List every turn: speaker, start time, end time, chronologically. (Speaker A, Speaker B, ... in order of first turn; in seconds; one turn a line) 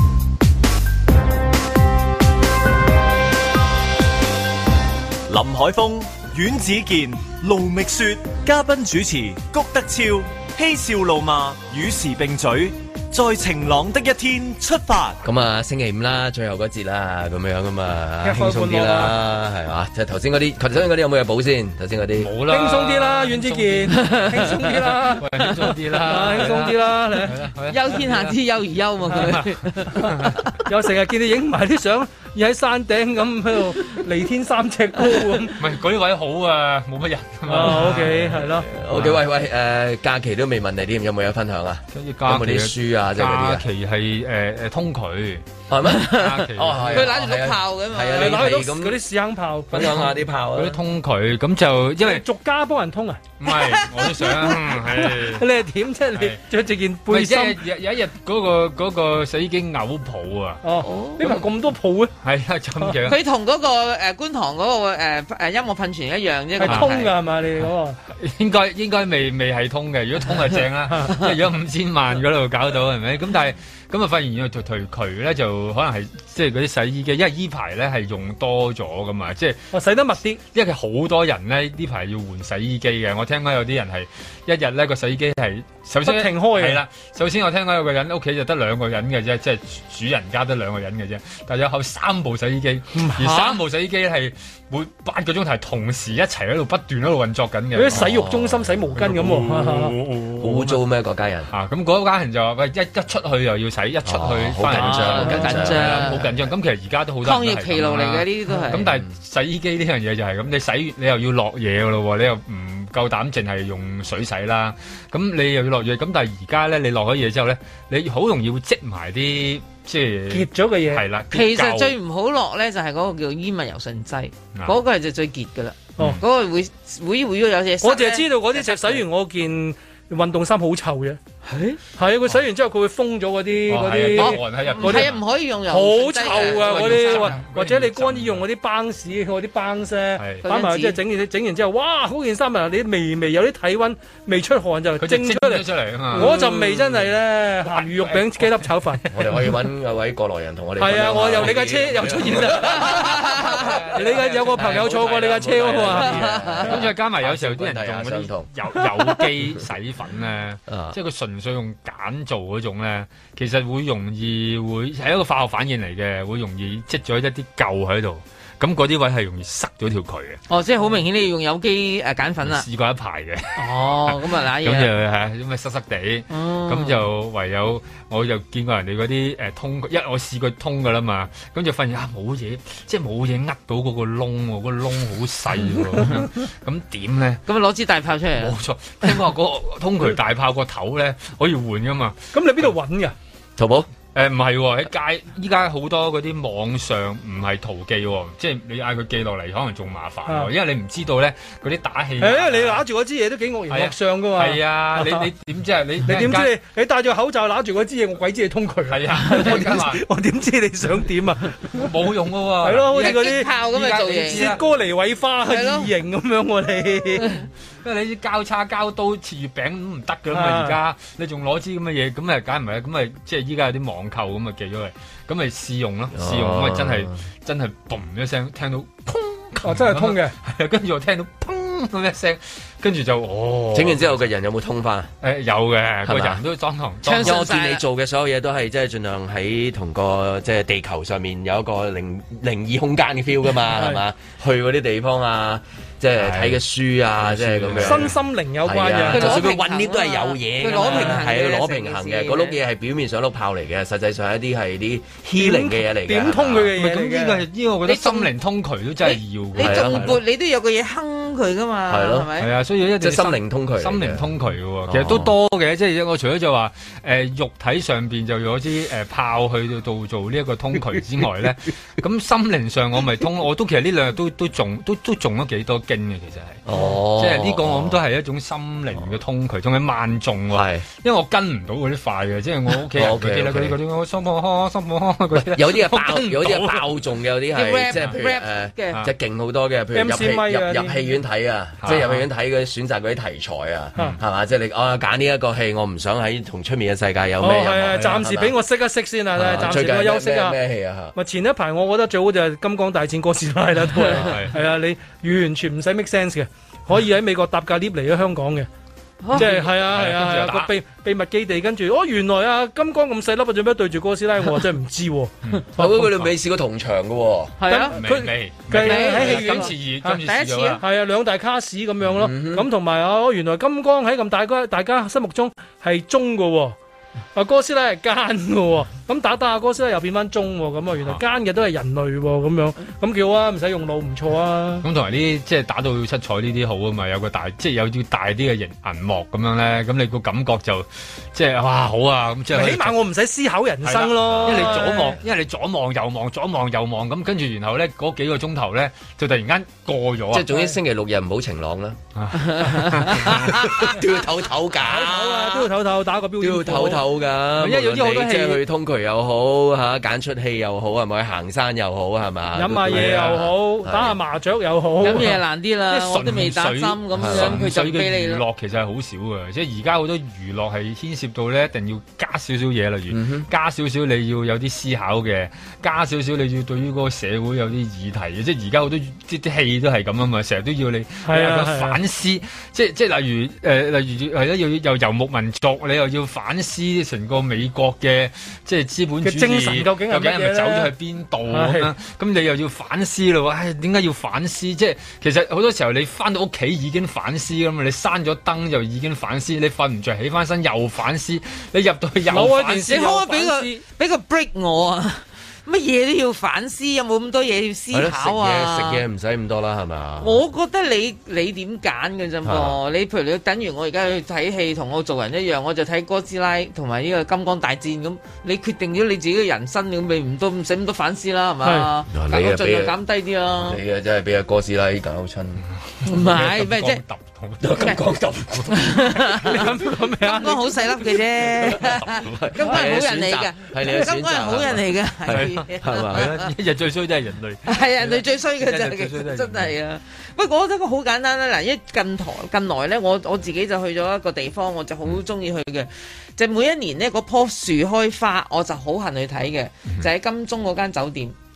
Speaker A: 5.3-15.2
Speaker B: 15.2-22.3
Speaker C: 18.2-19.1
Speaker D: 22.2-28.4
Speaker C: 22.5-25.2
Speaker E: 24.0-24.7
Speaker E: 25.4-25.7
Speaker C: 26.0-27.3
Speaker E: 27.7-30.5
Speaker D: 29.0-30.4
Speaker C: 30.6-35.6
Speaker D: 35.6-39.2
Speaker C: 37.5-38.7
Speaker B: 38.5-43.6
Speaker D: 41.9-45.4
Speaker B: 45.7-49.0
Speaker D: 46.0-47.2
Speaker E: 46.9-48.5
Speaker C: 48.1-50.0
Speaker B: 49.7-50.8
Speaker D: 50.5-52.2
Speaker C: 52.0-53.2
Speaker D: 53.4-55.5
Speaker E: 53.5-54.5
Speaker C: 55.0-57.6
Speaker D: 57.1-60.6
Speaker C: 60.6-62.1
Speaker E: 60.8-61.2
Speaker D: 62.2-63.2
Speaker E: 63.0-67.1
Speaker C: 66.6-68.0
Speaker D: 66.6-66.9
Speaker D: 68.1-79.7
Speaker C: 70.9-71.2
Speaker C: 79.7-80.4
Speaker D: 80.5-98.2
Speaker C: 86.0-86.8
Speaker C: 92.9-93.6
Speaker C: 97.7-100.0
Speaker B: 97.9-98.8
Speaker D: 99.0-100.8
Speaker B: 100.4-101.5
Speaker D: 101.5-122.0
Speaker B: 104.0-106.3
Speaker E: 104.8-106.3
Speaker E: 107.2-108.8
Speaker C: 120.3-121.0
Speaker E: 121.3-129.1
Speaker D: 124.5-124.8
Speaker C: 127.8-131.2
Speaker E: 131.5-131.8
Speaker C: 132.0-135.1
Speaker D: 133.7-135.2
Speaker E: 134.2-137.4
Speaker C: 135.7-149.1
Speaker D: 136.4-138.4
Speaker D: 140.2-140.4
Speaker E: 140.4-141.0
Speaker D: 145.0-149.2
Speaker B: 149.1-158.5
Speaker C: 150.8-153.2
Speaker D: 151.3-152.1
Speaker E: 153.1-153.4
Speaker D: 153.3-155.0
Speaker C: 153.9-156.3
Speaker E: 156.1-156.8
Speaker D: 156.6-170.4
Speaker B: 160.7-161.0
Speaker E: 170.5-172.7
Speaker D: 172.4-187.4
Speaker E: 173.6-174.9
Speaker E: 176.3-177.1
Speaker E: 187.5-189.2
Speaker D: 188.4-192.7
Speaker C: 192.3-193.2
Speaker B: 193.6-193.9
Speaker D: 194.1-202.8
Speaker C: 202.2-205.3
Speaker D: 203.7-206.5
Speaker C: 206.1-211.8
Speaker D: 208.9-210.0
Speaker D: 211.7-214.6
Speaker C: 212.6-213.5
Speaker E: 212.9-214.6
Speaker C: 214.2-217.3
Speaker E: 215.5-215.9
Speaker D: 217.8-234.2
Speaker C: 220.3-220.8
Speaker B: 226.1-227.2
Speaker C: 229.6-230.3
Speaker B: 233.7-235.1
Speaker D: 235.2-237.4
Speaker B: 236.1-236.4
Speaker E: 237.0-237.8
Speaker B: 237.2-248.1
Speaker C: 243.7-244.0
Speaker D: 246.2-246.6
Speaker D: 247.2-248.1
Speaker C: 247.8-249.5
Speaker B: 248.6-256.8
Speaker E: 249.1-252.6
Speaker C: 250.7-251.2
Speaker C: 255.4-257.4
Speaker D: 256.8-260.2
Speaker E: 257.9-258.3
Speaker E: 259.0-262.5
Speaker B: 259.6-260.2
Speaker B: 261.9-262.3
Speaker D: 262.4-286.9
Speaker B: 263.0-264.3
Speaker B: 264.9-265.4
Speaker B: 276.7-278.0
Speaker B: 280.5-280.9
Speaker B: 282.9-283.8
Speaker B: 285.4-298.6
Speaker E: 287.5-289.0
Speaker C: 289.9-291.0
Speaker D: 291.8-292.2
Speaker C: 297.4-300.6
Speaker B: 299.4-301.1
Speaker C: 301.1-308.7
Speaker D: 304.1-304.5
Speaker D: 309.3-310.7
Speaker C: 309.3-315.3
Speaker D: 315.4-316.3
Speaker B: 315.8-317.6
Speaker E: 317.6-318.0
Speaker C: 317.7-320.2
Speaker D: 317.9-320.8
Speaker E: 318.8-320.8
Speaker C: 320.8-326.8
Speaker B: 322.1-322.7
Speaker C: 327.4-334.9
Speaker D: 334.8-343.0
Speaker C: 342.5-345.2
Speaker D: 343.9-350.6
Speaker B: 344.0-344.8
Speaker B: 350.3-352.0
Speaker D: 352.1-353.6
Speaker E: 352.5-353.4
Speaker B: 352.9-355.6
Speaker C: 354.8-357.0
Speaker B: 356.4-364.2
Speaker D: 357.6-358.6
Speaker C: 362.6-365.4
Speaker D: 362.9-363.4
Speaker E: 365.0-368.4
Speaker D: 365.9-403.0
Speaker B: 367.1-367.7
Speaker B: 373.1-373.5
Speaker C: 381.2-382.0
Speaker C: 389.2-390.9
Speaker C: 391.5-391.9
Speaker C: 402.3-403.8
Speaker E: 402.9-409.0
Speaker B: 407.9-410.4
Speaker E: 410.2-423.8
Speaker B: 412.4-412.8
Speaker C: 421.6-421.9
Speaker B: 422.1-423.0
Speaker B: 423.6-425.6
Speaker D: 425.8-428.0
Speaker E: 426.1-427.0
Speaker B: 427.6-429.1
Speaker E: 428.7-436.5
Speaker C: 429.4-430.8
Speaker B: 431.6-436.4
Speaker D: 431.6-432.3
Speaker D: 435.3-439.8
Speaker E: 437.7-451.4